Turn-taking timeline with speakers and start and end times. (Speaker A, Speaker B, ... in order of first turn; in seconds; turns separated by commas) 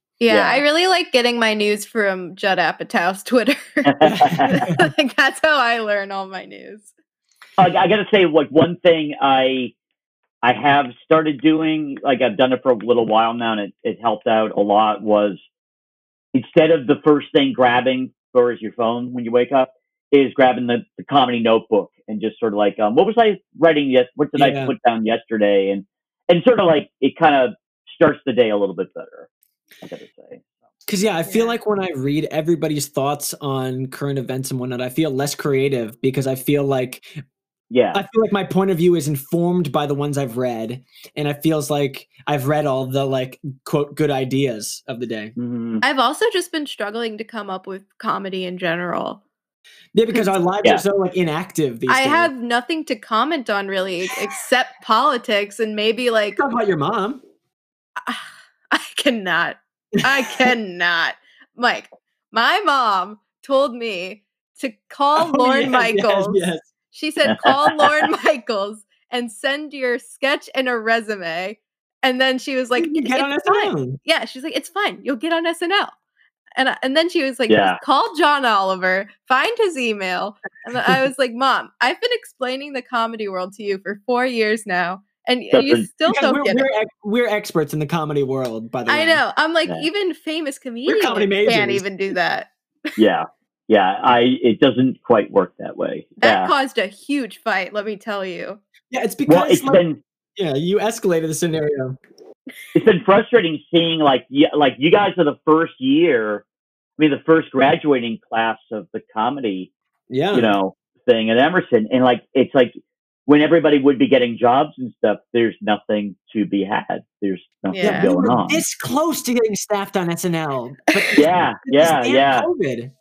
Speaker A: 0.2-6.9, Speaker B: 0.3-0.6, Speaker B: 3.9-4.7, Speaker C: 4.0-4.8, Speaker B: 7.6-9.7, Speaker B: 10.4-15.4, Speaker B: 16.3-29.3, Speaker C: 24.4-24.7, Speaker B: 29.8-30.4, Speaker C: 30.9-37.1, Speaker A: 31.2-31.5, Speaker B: 37.7-38.0, Speaker C: 37.9-45.3, Speaker B: 45.4-45.8, Speaker A: 45.8-49.2, Speaker C: 49.9-52.3, Speaker A: 51.9-56.4, Speaker C: 56.4-57.2, Speaker A: 58.0-75.9, Speaker C: 60.0-60.5, Speaker C: 65.2-66.7, Speaker B: 67.3-67.9, Speaker C: 72.8-74.0, Speaker A: 76.5-86.7, Speaker B: 77.5-77.8, Speaker B: 85.5-85.9, Speaker C: 86.1-89.2, Speaker A: 88.9-93.0, Speaker C: 90.8-91.8, Speaker B: 93.0-96.5, Speaker A: 96.2-98.6, Speaker C: 98.9-99.8, Speaker B: 99.3-100.0, Speaker C: 100.3-102.0, Speaker B: 102.7-106.4, Speaker B: 107.0-109.7, Speaker C: 110.1-110.5, Speaker B: 110.3-112.7, Speaker B: 113.3-118.6, Speaker A: 117.7-118.1, Speaker C: 117.8-122.9, Speaker B: 121.1-122.5